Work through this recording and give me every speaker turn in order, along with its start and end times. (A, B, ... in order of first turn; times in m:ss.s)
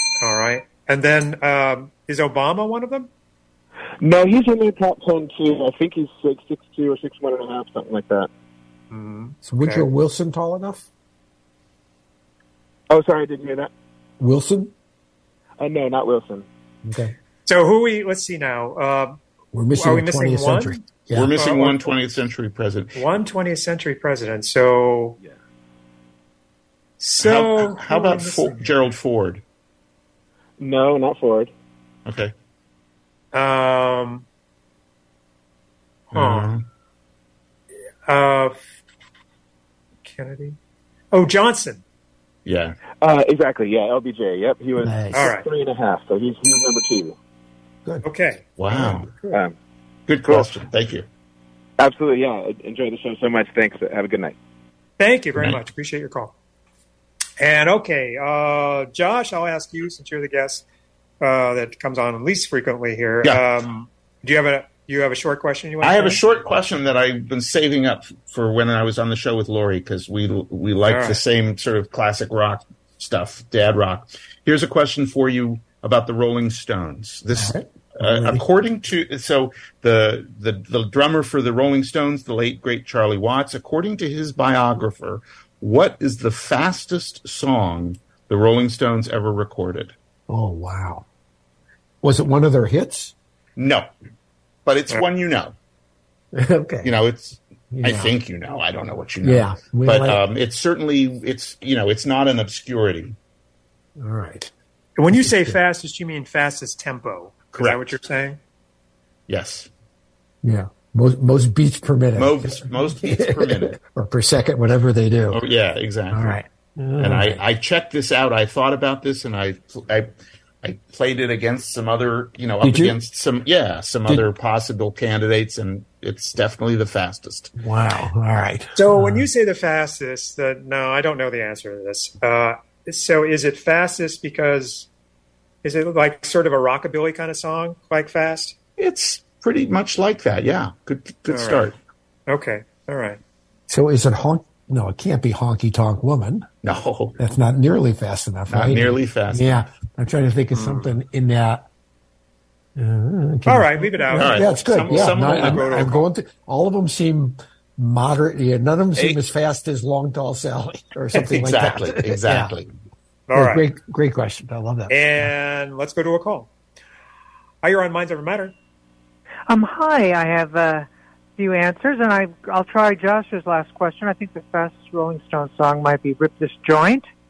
0:00.2-0:03.1 A
0:04.0-0:08.3 B
0:08.9-0:09.8 A
0:09.4-0:10.9 C
0:12.9-0:13.7 B
0:14.2-0:14.7 C
0:15.6-0:16.4 B
0:16.8-0:17.1 C
0:17.4-0:19.2 A
0:19.5-0:21.3 C
0:19.7-0:22.0 A
0:21.1-0:23.0 D
0:22.9-0:25.2 A
0:27.0-0:28.7 A
0:27.2-0:29.4 D
0:30.6-0:31.5 B
0:32.0-0:32.3 D
0:33.3-0:34.2 A
0:36.1-0:36.6 D
0:36.1-0:36.5 A
0:38.1-0:38.6 A
0:40.0-0:40.6 A
0:41.1-0:41.8 A
0:42.4-0:42.8 D
0:43.0-0:47.1 B
0:44.8-0:45.3 C
0:45.1-0:45.5 A
0:48.0-0:48.4 A
0:48.6-0:49.1 D
0:48.7-0:49.0 C
0:49.3-0:49.5 B
0:50.1-0:51.0 D
0:50.2-0:50.5 B
0:51.8-0:54.3 B
0:55.0-0:56.3 A
0:57.4-1:00.6 A
1:01.2-1:06.2 A
1:05.8-1:29.9 D
1:10.8-1:11.2 A
1:17.3-1:18.4 C
1:30.3-1:31.0 C
1:32.0-1:33.1 C
1:33.6-1:33.9 D
1:34.6-1:35.5 D
1:36.3-1:36.9 C
1:36.8-1:43.1 D
1:37.7-1:38.1 C
1:39.2-1:40.2 C
1:44.0-1:44.5 C
1:45.0-1:48.4 A
1:45.1-1:45.6 C
1:47.5-1:48.0 D
1:49.3-1:49.7 D
1:50.4-1:55.4 C
1:52.2-1:53.8 D
1:55.3-1:56.4 D
1:56.1-1:57.4 C
1:57.0-2:00.1 D
2:00.6-2:07.5 D
2:02.6-2:03.0 C
2:07.6-2:09.3 C
2:08.8-2:14.9 A
2:15.6-2:18.6 A
2:18.8-2:21.8 D
2:21.3-2:21.7 A
2:22.3-2:23.2 A
2:23.7-2:26.5 C
2:26.6-2:27.3 D
2:27.2-2:31.6 C
2:28.5-2:29.6 D
2:30.5-2:30.9 A
2:32.8-2:42.6 C
2:33.4-2:36.0 A
2:34.1-2:36.0 D
2:41.2-2:42.7 D
2:43.3-2:43.6 A
2:43.3-2:45.3 C
2:44.9-2:46.5 A
2:47.6-2:48.5 A
2:49.5-2:57.0 E